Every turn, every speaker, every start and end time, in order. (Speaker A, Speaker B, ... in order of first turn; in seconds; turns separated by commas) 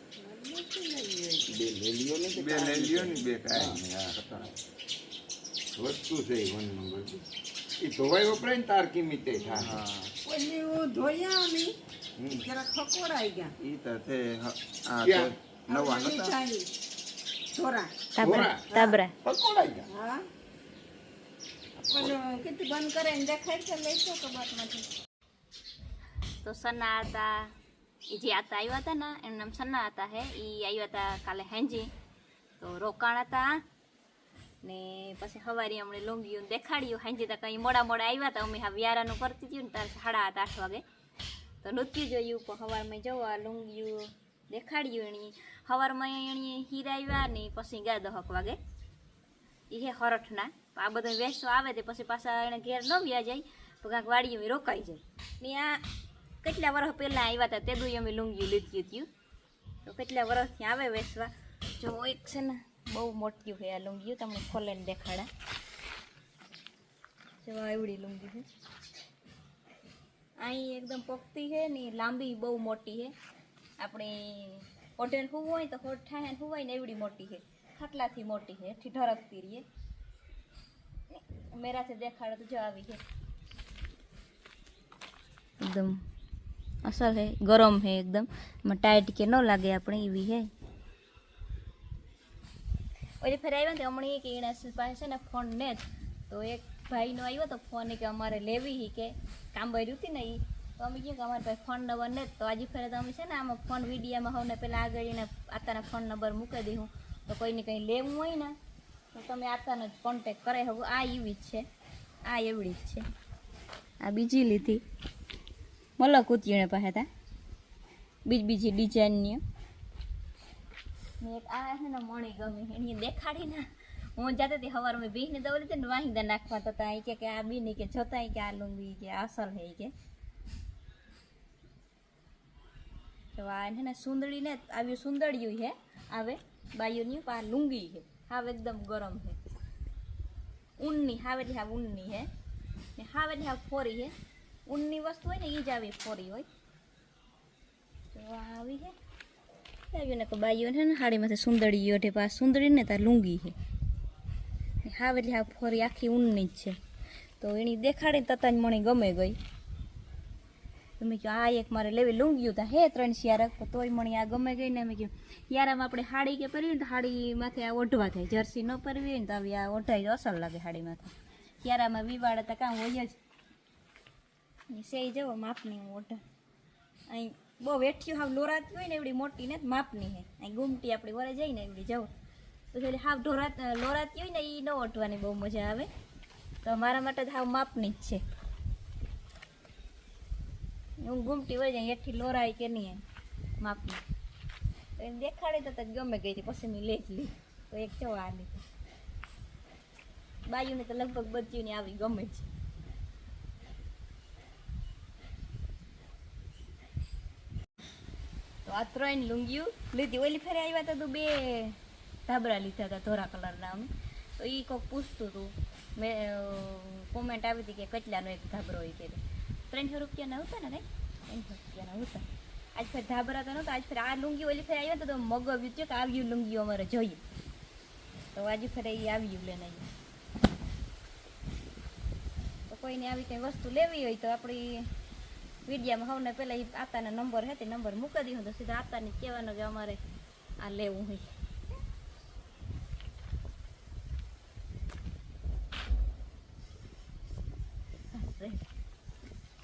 Speaker A: 0.4-4.6, Speaker B: 2.4-3.8, Speaker B: 5.8-6.9, Speaker A: 6.1-7.2, Speaker B: 7.8-9.8, Speaker A: 9.5-10.2, Speaker C: 10.3-11.7, Speaker C: 12.3-13.5, Speaker A: 13.6-16.3, Speaker B: 15.0-15.3, Speaker C: 15.7-16.7, Speaker C: 17.5-17.9, Speaker D: 18.1-19.1, Speaker B: 18.2-18.7, Speaker C: 18.7-19.0, Speaker B: 19.2-19.9, Speaker C: 19.9-20.2, Speaker C: 21.9-24.9, Speaker D: 26.4-27.5, Speaker D: 28.1-31.9, Speaker D: 32.6-33.6, Speaker D: 34.6-40.8, Speaker D: 41.6-48.6, Speaker D: 49.7-55.8, Speaker D: 56.4-59.1, Speaker D: 59.9-65.3, Speaker D: 67.4-68.4, Speaker D: 70.4-73.1, Speaker D: 73.8-79.6, Speaker D: 81.1-83.0, Speaker D: 85.6-86.0, Speaker D: 86.8-90.5, Speaker D: 93.2-108.5, Speaker D: 109.1-111.7, Speaker D: 112.2-113.0, Speaker D: 114.0-114.8, Speaker D: 116.0-117.1, Speaker D: 118.3-119.4, Speaker D: 121.2-123.7, Speaker D: 124.2-129.9, Speaker D: 133.3-139.4, Speaker D: 140.8-142.3, Speaker D: 143.0-144.1, Speaker D: 144.7-146.5, Speaker D: 148.1-148.9, Speaker D: 149.9-153.6, Speaker D: 154.8-156.8, Speaker D: 157.4-159.4, Speaker D: 161.0-173.2, Speaker D: 174.7-176.2, Speaker D: 177.1-182.1, Speaker D: 182.7-185.9, Speaker D: 186.6-188.2, Speaker D: 191.0-193.0, Speaker D: 193.6-194.0, Speaker D: 195.0-198.6, Speaker D: 200.5-202.5, Speaker D: 208.7-227.2, Speaker D: 228.3-229.9, Speaker D: 232.7-234.8, Speaker D: 235.7-240.0, Speaker D: 240.6-241.2, Speaker D: 248.1-248.6